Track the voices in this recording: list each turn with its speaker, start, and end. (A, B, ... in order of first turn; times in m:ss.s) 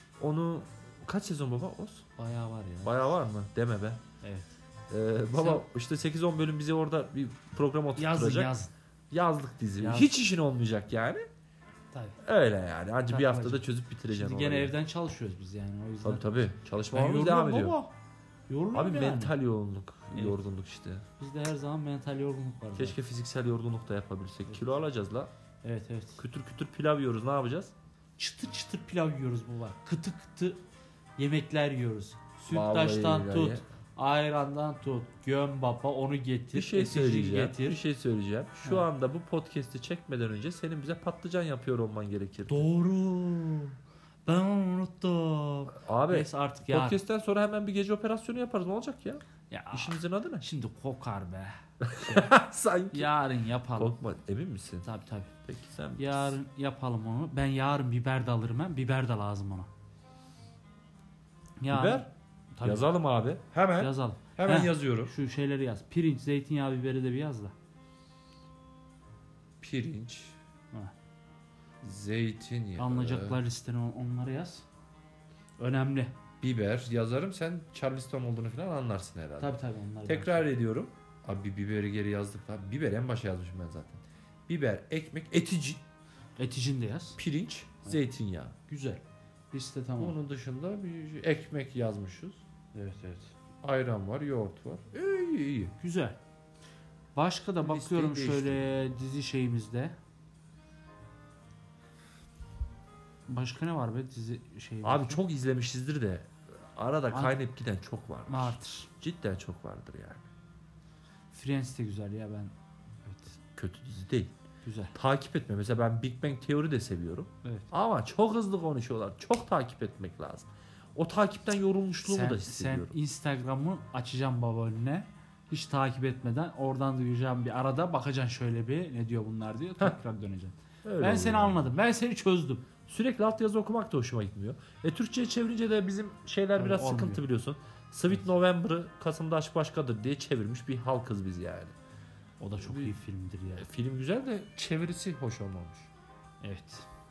0:00.2-0:02.0 A
0:02.2-0:03.1 B
0:02.8-0:04.0 A
0:04.2-0:04.5 B
0:04.9-0:08.5 A
0:05.3-0:05.6 B
0:08.0-0:08.7 B
0:09.1-0:11.3 A
0:09.8-0:10.1 B
0:11.9-0:12.2 B
0:12.2-0:14.8 A
0:13.1-0:16.3 B
0:16.0-0:17.8 A
0:16.9-0:17.9 B
0:18.5-0:19.3 B
0:18.7-0:21.0 A
0:21.2-0:23.0 B
0:22.8-0:25.3 A
0:25.6-0:26.2 B
0:26.2-0:27.7 A
0:28.2-0:30.6 B
0:31.2-0:37.8 B
0:32.5-0:33.6 A
0:36.5-0:42.7 A
0:42.5-0:47.0 B
0:45.8-0:50.5 A
0:49.5-0:52.3 B
0:51.8-0:53.1 A
0:52.9-0:53.9 B
0:53.8-0:54.9 A
0:54.8-0:55.3 B
0:55.5-0:56.4 A
0:56.0-0:59.7 B
1:01.6-1:02.9 B
1:01.7-1:02.1 A
1:02.6-1:05.1 A
1:03.8-1:07.5 B
1:09.6-1:10.4 A
1:11.8-1:13.4 A
1:12.8-1:14.6 B
1:15.6-1:16.1 B
1:16.4-1:19.6 A
1:19.4-1:20.5 B
1:20.1-1:25.8 A
1:26.4-1:27.2 B
1:27.2-1:28.6 A
1:28.7-1:30.2 B
1:30.0-1:32.4 A
1:32.7-1:33.3 B
1:33.6-1:35.7 A
1:35.8-1:36.2 B
1:37.2-1:40.0 B
1:37.6-1:38.9 A
1:43.3-1:45.2 B
1:44.8-1:50.2 A
1:47.1-1:47.4 B
1:48.3-1:48.9 B
1:51.3-1:52.5 B
1:53.1-1:53.3 B
1:53.6-1:54.3 A
1:54.6-1:54.9 B
1:55.0-2:03.0 A
1:57.4-1:57.7 B
2:02.0-2:12.7 B
2:10.8-2:11.8 A
2:12.9-2:21.8 A
2:16.6-2:17.2 B
2:22.4-2:23.7 B
2:22.6-2:23.0 A
2:23.6-2:25.9 A
2:26.4-2:26.8 B